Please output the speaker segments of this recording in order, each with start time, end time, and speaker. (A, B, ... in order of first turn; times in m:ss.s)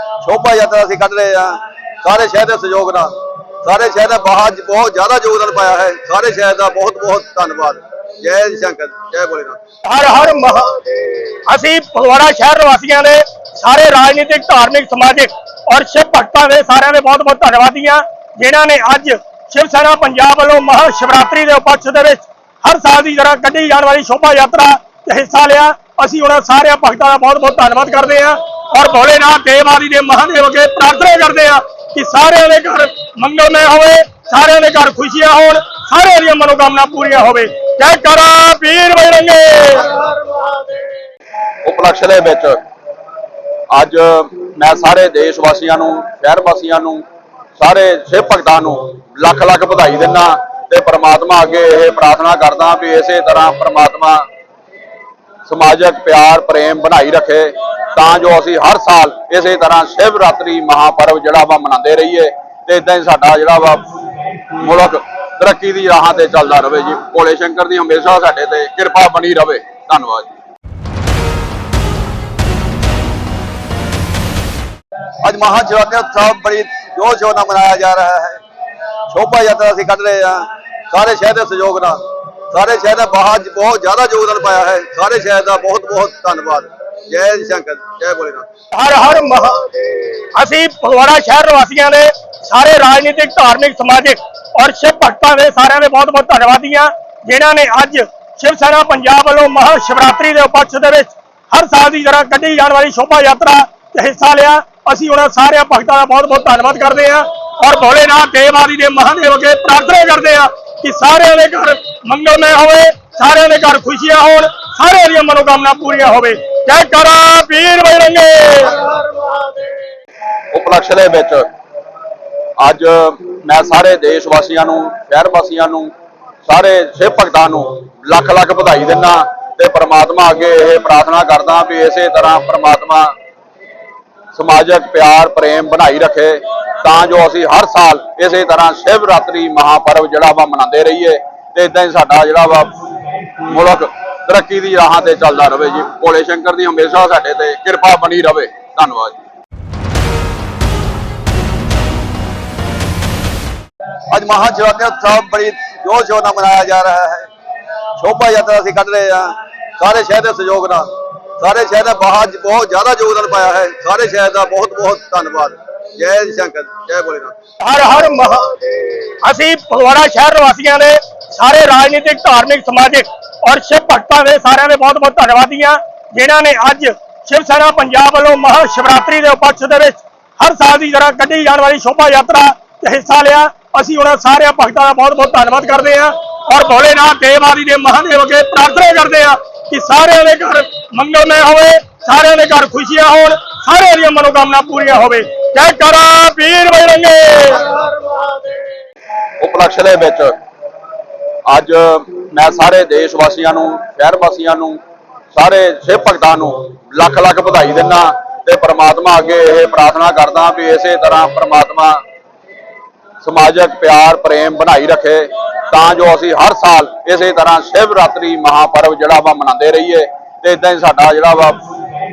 0:00.2-0:03.1 A
0:03.6-0:09.6 A
0:09.9-0:10.8 B
0:10.8-0:11.3 A
0:11.5-0:40.9 B
0:41.6-0:42.6 C
0:43.7-0:47.0 C
0:47.6-0:54.3 C
0:55.5-1:03.9 C
1:04.5-1:10.3 C
1:15.2-1:18.4 A
1:19.1-1:28.5 A
1:28.7-1:59.8 B
1:29.7-1:30.2 A
2:00.5-2:01.5 C
2:02.6-2:05.9 C
2:06.5-2:13.1 C
2:14.4-2:22.8 C
2:23.4-2:29.2 C
2:34.1-2:37.3 A
2:38.0-2:40.9 A
2:41.4-2:47.4 A
2:47.6-3:18.7 B
2:48.6-2:49.0 A
3:19.4-3:20.4 C
3:21.5-3:24.8 C
3:25.3-3:32.0 C
3:33.2-3:41.8 C